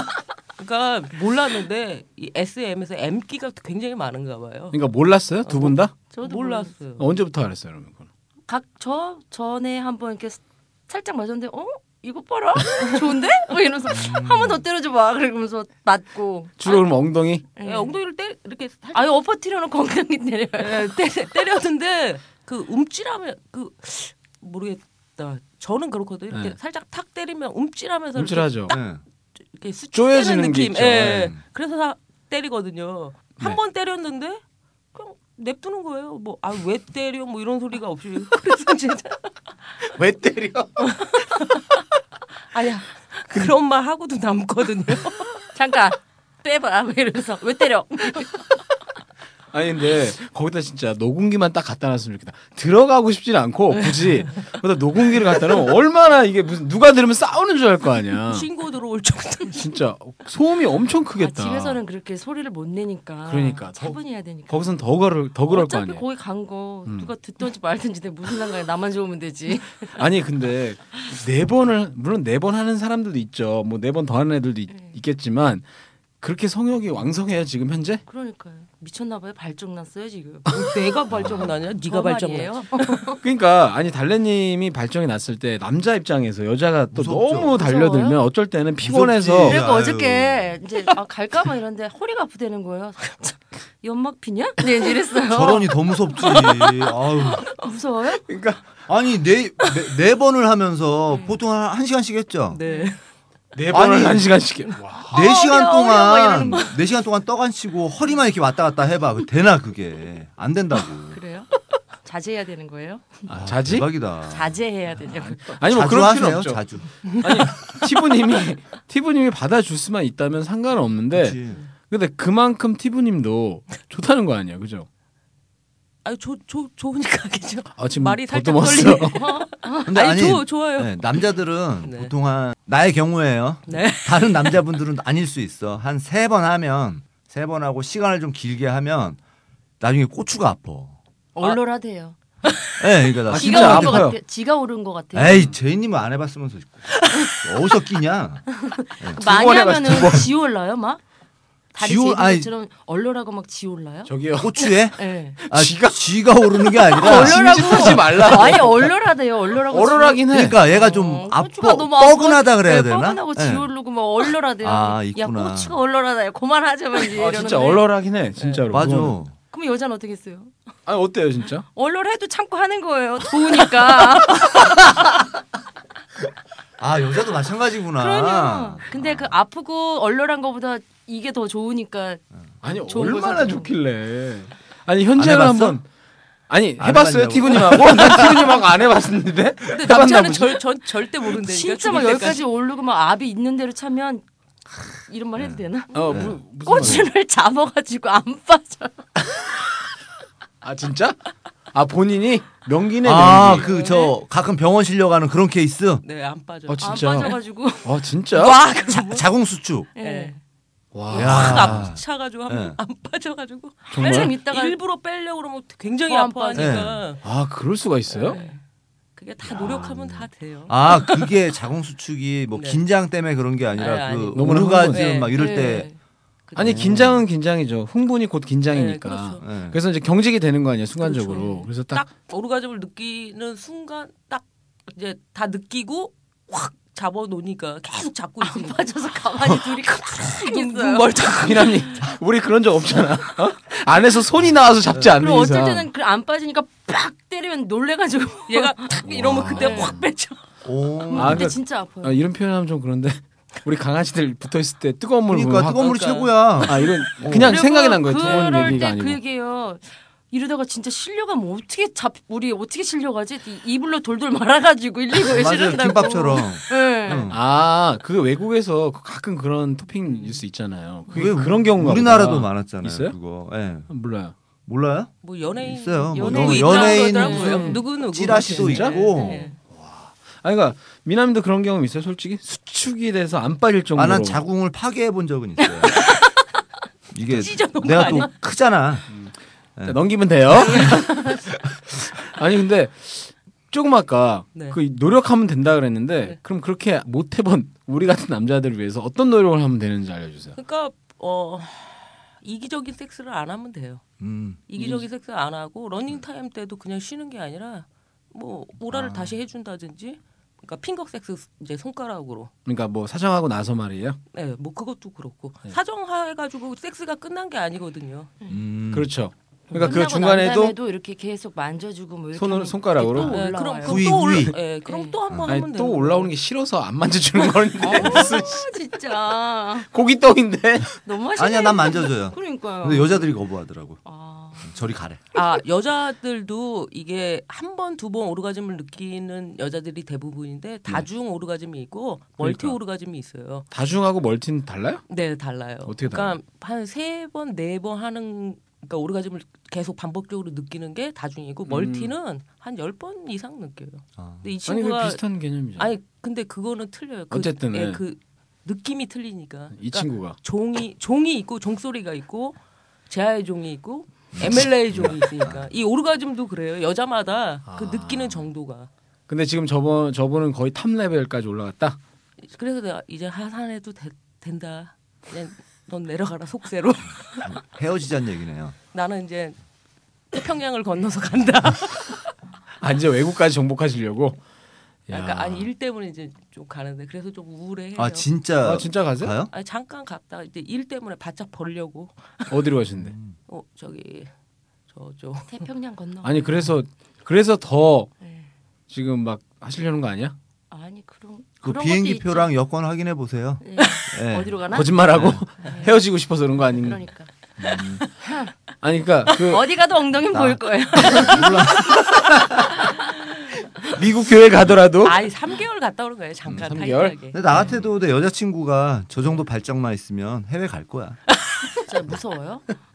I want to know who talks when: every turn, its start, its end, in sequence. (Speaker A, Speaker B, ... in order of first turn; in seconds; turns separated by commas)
Speaker A: 0.6-4.8, Speaker B: 4.7-5.9, Speaker A: 5.4-7.0, Speaker C: 6.1-6.7, Speaker B: 7.0-8.1, Speaker C: 8.5-16.8, Speaker D: 13.9-14.6, Speaker B: 16.6-17.4, Speaker C: 17.6-17.9, Speaker A: 17.6-19.1, Speaker C: 18.9-20.9, Speaker A: 20.6-28.8, Speaker B: 28.1-28.7, Speaker D: 28.7-29.0, Speaker A: 29.5-34.4, Speaker B: 29.9-31.3, Speaker D: 31.0-31.4, Speaker A: 34.9-39.3, Speaker B: 39.8-41.0, Speaker A: 41.0-41.8, Speaker A: 42.5-45.3, Speaker C: 45.5-48.4, Speaker B: 49.5-58.5, Speaker A: 58.3-59.7, Speaker B: 59.5-61.8, Speaker C: 61.2-64.8, Speaker B: 63.2-66.0, Speaker C: 65.5-70.0, Speaker B: 66.8-67.1, Speaker B: 70.0-75.6, Speaker C: 74.7-75.0, Speaker B: 76.2-78.0, Speaker C: 78.1-83.2, Speaker A: 80.5-83.0, Speaker D: 81.1-81.5, Speaker B: 83.2-89.6, Speaker D: 86.9-87.6, Speaker C: 87.4-88.2, Speaker D: 88.8-90.6, Speaker C: 89.4-95.7, Speaker D: 95.2-97.5, Speaker A: 96.2-96.7, Speaker C: 97.4-98.2, Speaker B: 98.3-98.6, Speaker D: 98.9-102.6, Speaker C: 101.1-101.3, Speaker A: 102.5-103.0, Speaker C: 102.6-102.9, Speaker B: 103.5-105.1, Speaker D: 103.7-104.3, Speaker D: 105.1-111.2, Speaker C: 105.1-106.7, Speaker C: 111.1-111.5, Speaker C: 112.0-113.3, Speaker D: 113.3-114.6, Speaker B: 113.3-113.9, Speaker C: 114.3-115.5, Speaker B: 115.0-116.6, Speaker D: 115.6-116.9, Speaker A: 117.1-117.5, Speaker B: 117.2-121.4, Speaker D: 121.1-121.6, Speaker B: 121.9-124.9, Speaker A: 126.0-131.2, Speaker B: 127.8-129.2, Speaker C: 129.1-129.9, Speaker D: 129.9-139.2, Speaker A: 131.8-132.1, Speaker A: 133.7-134.7, Speaker D: 139.8-141.0, Speaker C: 141.3-142.2, Speaker D: 142.8-144.1, Speaker B: 143.3-144.2, Speaker C: 143.3-145.5, Speaker D: 145.1-148.5, Speaker C: 148.5-151.0, Speaker B: 149.2-150.3, Speaker C: 151.7-155.4, Speaker D: 151.8-152.5, Speaker B: 154.1-154.6, Speaker D: 154.4-158.3, Speaker B: 155.4-156.1, Speaker C: 156.9-167.8, Speaker B: 156.9-158.9, Speaker B: 159.7-160.6, Speaker D: 160.3-163.7, Speaker D: 164.6-165.8, Speaker B: 167.1-169.2, Speaker A: 168.4-168.6, Speaker D: 168.7-169.3, Speaker C: 169.5-170.5, Speaker B: 170.8-171.6, Speaker C: 171.7-175.2, Speaker D: 176.8-179.4, Speaker C: 178.0-182.2, Speaker B: 182.6-185.8, Speaker C: 182.7-183.7, Speaker D: 185.2-185.8, Speaker B: 186.5-190.6, Speaker D: 186.8-188.6, Speaker A: 189.7-192.4, Speaker C: 191.3-194.2, Speaker C: 195.1-199.2, Speaker D: 195.3-197.0, Speaker B: 195.9-197.1, Speaker B: 200.6-201.2, Speaker B: 201.7-203.7, Speaker D: 203.0-206.0, Speaker A: 203.6-204.1, Speaker A: 206.0-207.4, Speaker B: 206.7-208.6, Speaker C: 206.8-208.0, Speaker A: 208.3-209.2, Speaker D: 208.9-209.9, Speaker A: 210.0-210.3, Speaker C: 210.0-210.4, Speaker B: 210.9-211.9, Speaker A: 211.1-217.2, Speaker D: 211.1-212.8, Speaker B: 213.9-214.3, Speaker C: 213.9-214.8, Speaker C: 216.1-216.8, Speaker D: 216.5-217.0, Speaker B: 217.2-218.4, Speaker A: 218.1-218.6, Speaker C: 218.2-218.6, Speaker A: 219.2-221.3, Speaker D: 219.4-225.9, Speaker A: 222.5-222.8, Speaker A: 223.7-225.6, Speaker B: 224.3-225.1, Speaker C: 225.3-225.9, Speaker A: 226.5-226.8, Speaker B: 226.6-232.0, Speaker D: 226.6-227.2, Speaker A: 228.7-229.4, Speaker D: 229.4-229.8, Speaker C: 231.0-231.7, Speaker A: 231.3-238.9, Speaker C: 238.4-241.2, Speaker A: 239.6-242.0, Speaker B: 241.4-245.9, Speaker C: 245.1-250.0, Speaker A: 248.5-250.4, Speaker B: 249.1-250.0, Speaker D: 250.6-251.5, Speaker C: 251.1-252.2, Speaker B: 251.1-255.9, Speaker D: 255.3-257.6, Speaker A: 255.7-256.8, Speaker B: 256.6-259.2, Speaker C: 257.3-267.3, Speaker A: 258.2-258.7, Speaker D: 265.1-267.4, Speaker B: 267.3-273.1, Speaker A: 270.1-270.4, Speaker D: 271.1-273.9, Speaker B: 273.9-274.3, Speaker D: 274.6-279.5, Speaker A: 275.2-279.5, Speaker C: 276.1-277.8, Speaker B: 278.3-279.0, Speaker C: 279.1-279.6, Speaker B: 279.7-284.4, Speaker D: 283.9-286.0, Speaker A: 285.9-286.2, Speaker D: 287.1-289.1, Speaker A: 287.3-288.3, Speaker B: 289.8-291.4, Speaker C: 290.8-291.4, Speaker B: 292.1-300.6, Speaker A: 300.6-304.0, Speaker D: 304.2-304.6, Speaker A: 304.7-312.5, Speaker B: 304.8-305.0, Speaker D: 308.9-309.2, Speaker B: 312.6-314.2, Speaker A: 314.3-318.3, Speaker D: 318.5-319.1, Speaker B: 318.9-320.8, Speaker C: 319.7-324.1, Speaker B: 322.3-323.4, Speaker A: 323.2-326.3, Speaker D: 323.8-324.6, Speaker C: 324.9-325.2, Speaker B: 325.4-328.7, Speaker C: 327.8-329.9, Speaker B: 329.9-331.0, Speaker C: 331.0-333.3, Speaker D: 331.4-334.0, Speaker C: 334.0-334.7, Speaker D: 334.6-335.2, Speaker A: 335.3-343.7, Speaker B: 342.4-342.8, Speaker B: 343.7-345.0, Speaker A: 345.1-355.2, Speaker B: 345.8-346.4, Speaker B: 351.7-352.1, Speaker D: 354.2-354.4, Speaker B: 354.7-355.9, Speaker A: 355.8-362.6, Speaker B: 357.3-358.0, Speaker B: 359.7-360.4, Speaker A: 363.1-368.9, Speaker D: 364.3-365.7, Speaker B: 367.7-368.4, Speaker B: 369.3-372.0, Speaker A: 372.4-377.5, Speaker D: 377.4-378.8, Speaker A: 378.9-379.6, Speaker A: 380.3-382.2, Speaker B: 382.8-384.4, Speaker B: 385.1-385.7, Speaker A: 385.1-388.3, Speaker D: 387.9-389.5, Speaker B: 388.6-389.3, Speaker A: 389.5-392.6, Speaker B: 392.5-393.1, Speaker D: 393.1-393.3, Speaker A: 393.5-394.3, Speaker A: 394.9-395.7, Speaker C: 395.5-396.7, Speaker B: 396.2-398.1, Speaker C: 398.2-398.5, Speaker B: 398.9-400.3, Speaker C: 400.7-402.5, Speaker D: 401.6-405.4, Speaker C: 403.6-404.9, Speaker B: 404.7-407.0, Speaker C: 405.6-406.0, Speaker C: 406.7-407.3, Speaker D: 407.6-408.0, Speaker C: 408.2-408.5, Speaker B: 408.8-409.7, Speaker C: 409.3-412.0, Speaker D: 410.3-412.4, Speaker B: 412.1-412.7, Speaker B: 413.8-415.2, Speaker A: 415.0-417.4, Speaker B: 416.5-417.7, Speaker D: 417.3-421.2, Speaker C: 421.9-422.8